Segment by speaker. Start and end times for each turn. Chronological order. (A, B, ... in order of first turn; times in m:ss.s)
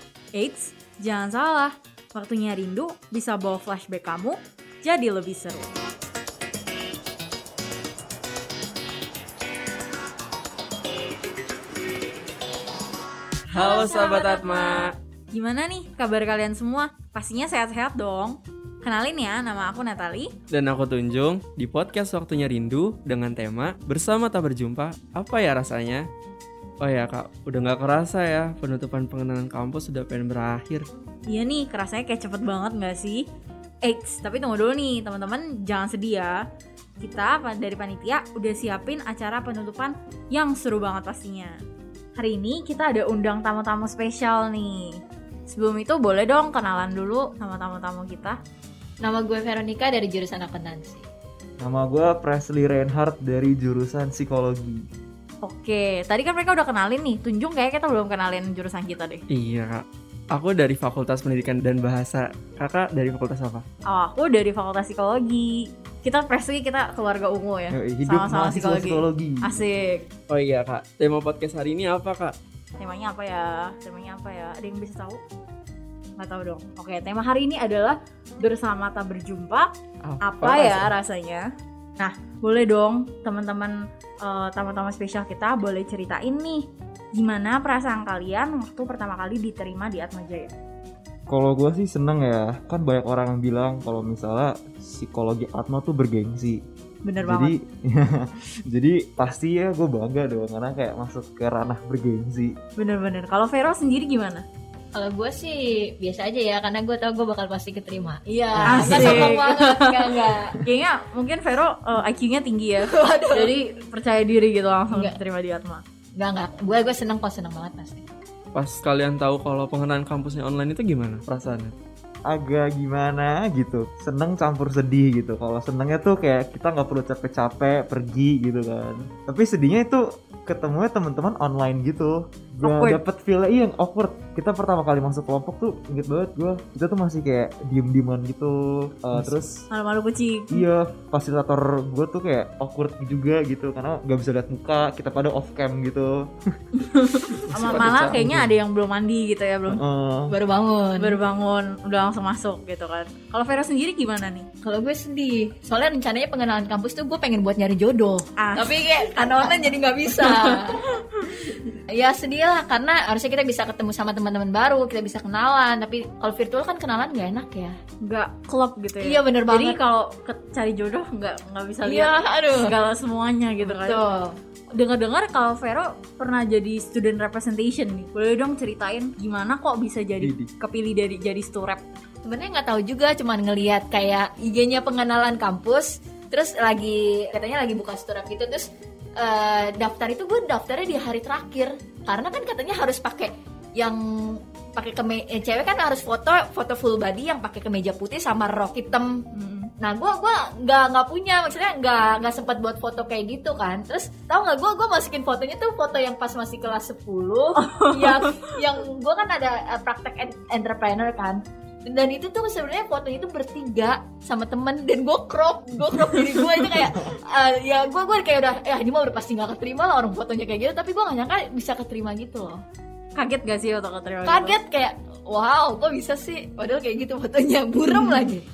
0:00.3-0:05.7 A
0:13.5-0:15.0 B
0:13.5-0:14.7 C
0:15.3-0:20.3 A
0:20.5-0:26.1 B
0:26.8-0:30.9 B
0:31.3-0:33.2 A
0:33.8-0:36.4 A
0:37.0-0:41.6 A
0:42.2-0:48.4 A
0:49.0-0:51.0 C
0:51.6-0:54.9 D
0:55.4-0:59.2 A
0:59.3-1:03.6 B
1:03.9-1:10.1 A
1:07.7-1:09.6 D
1:10.3-1:12.4 B
1:12.8-1:15.2 A
1:16.2-1:21.5 A
1:20.0-1:20.9 B
1:22.0-1:30.5 A
1:31.3-1:36.6 D
1:37.0-1:37.6 A
1:37.2-1:42.6 D
1:42.8-1:44.4 A
1:44.9-1:50.6 C
1:48.7-1:55.8 A
1:48.7-1:49.3 D
1:52.8-1:53.5 C
1:54.9-1:55.2 C
1:56.2-1:58.1 C
1:58.5-2:01.8 B
2:02.3-2:19.7 D
2:12.6-2:13.0 A
2:19.7-2:20.6 A
2:20.5-2:26.3 D
2:26.8-2:29.8 A
2:27.4-2:28.4 D
2:27.5-2:28.5 B
2:29.7-2:30.3 D
2:30.3-2:31.2 C
2:31.0-2:34.5 A
2:34.6-2:40.8 C
2:38.4-2:39.6 A
2:40.2-2:41.3 A
2:41.5-2:47.8 C
2:48.0-2:54.0 A
2:49.0-2:49.8 C
2:51.8-2:52.8 C
2:53.6-2:54.4 C
2:54.7-3:01.8 A
3:00.2-3:00.5 D
3:02.2-3:19.2 C
3:19.3-3:19.7 A
3:19.8-3:42.6 C
3:27.6-3:28.5 A
3:36.0-3:36.4 A
3:43.2-3:44.6 A
3:44.3-3:48.4 C
3:47.8-3:48.3 A